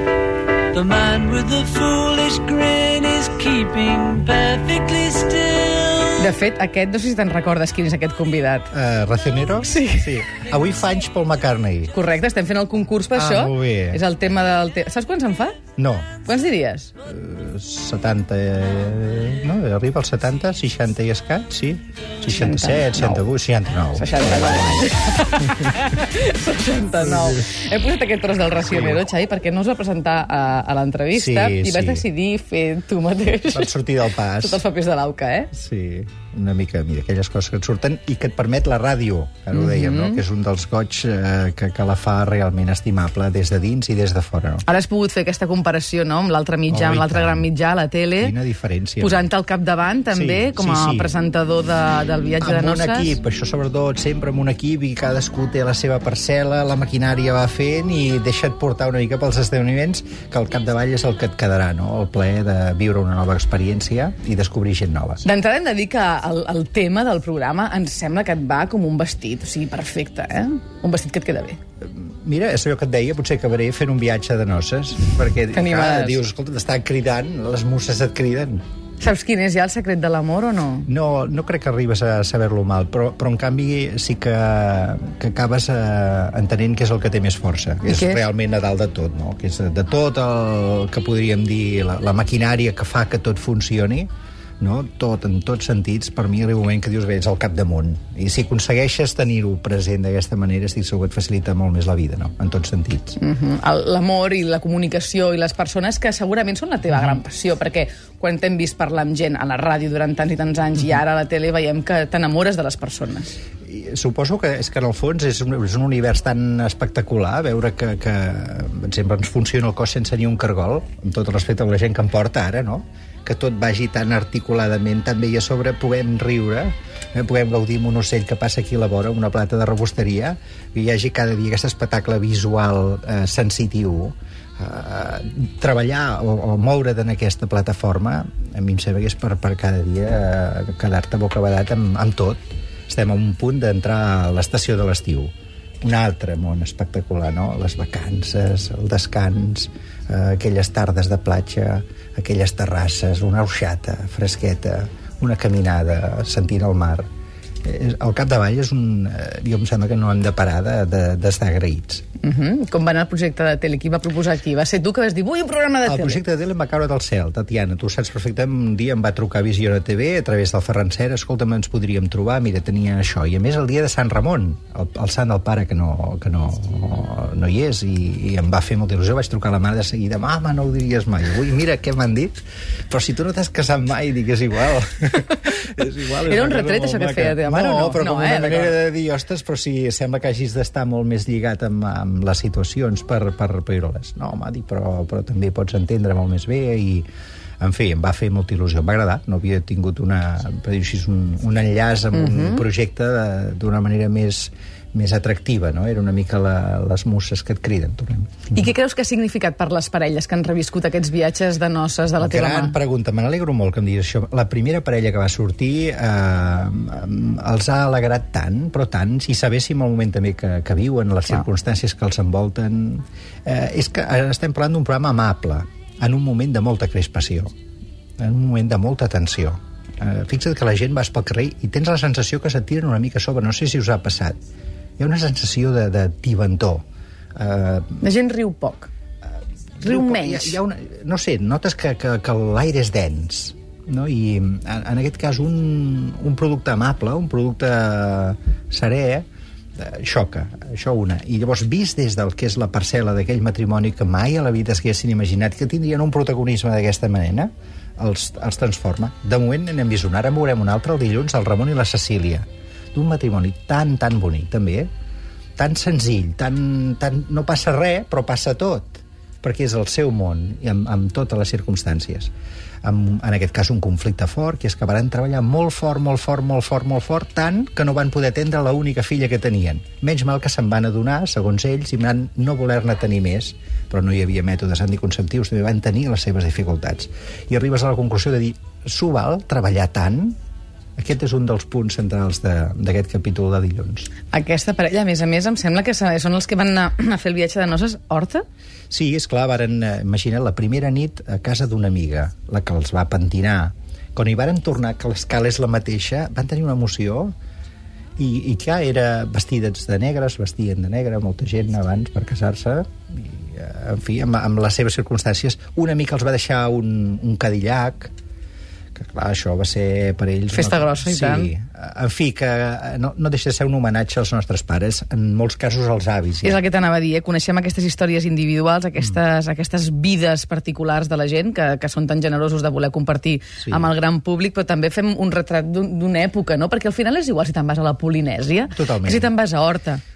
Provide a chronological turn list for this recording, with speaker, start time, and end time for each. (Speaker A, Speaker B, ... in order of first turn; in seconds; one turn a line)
Speaker A: 0.7-6.2
Speaker B: 6.2-8.7
Speaker C: 8.7-11.9
Speaker B: 9.7-10.1
Speaker B: 11.9-15.6
Speaker C: 13.1-14.0
Speaker C: 15.8-16.1
Speaker B: 16.2-16.9
Speaker C: 17.0-24.9
Speaker B: 22.4-23.2
Speaker B: 23.9-33.7
Speaker C: 28.6-29.0
Speaker C: 31.1-32.0
Speaker C: 33.5-34.6
Speaker B: 34.4-35.5
Speaker C: 35.5-44.6
Speaker B: 39.5-40.2
Speaker B: 44.6-48.3
Speaker C: 46.7-47.5
Speaker C: 48.2-49.3
Speaker B: 49.0-53.1
Speaker C: 50.1-51.1
Speaker C: 52.4-65.2
Speaker B: 65.2-71.6
Speaker C: 71.8-78.6
Speaker B: 75.5-76.2
Speaker B: 79.0-80.9
Speaker C: 80.9-94.1
Speaker B: 87.9-88.2
Speaker C: 94.6-103.2
Speaker B: 103.2-113.3
Speaker C: 113.6-157.1
Speaker C: 157.6-162.0
Speaker B: 162.2-166.2
Speaker C: 165.8-197.1
Speaker B: 186.2-188.8
Speaker C: 197.6-208.6
Speaker B: 202.1-202.6
Speaker B: 208.5-212.8
Speaker C: 212.2-227.5
Speaker C: 228.2-234.4
Speaker C: 235.0-236.8
Speaker C: 237.3-238.0
Speaker B: 238.0-238.9
Speaker C: 239.8-249.2
Speaker B: 239.8-240.6
Speaker C: 249.8-264.9
Speaker C: 265.6-272.3
Speaker C: 272.8-290.4
Speaker C: 291.0-294.1
Speaker B: 294.3-298.4
Speaker C: 298.9-307.3
Speaker C: 308.2-318.1
Speaker C: 318.9-326.6
Speaker B: 320.5-321.5
Speaker B: 326.4-340.0
Speaker C: 333.6-333.9
Speaker C: 338.7-339.3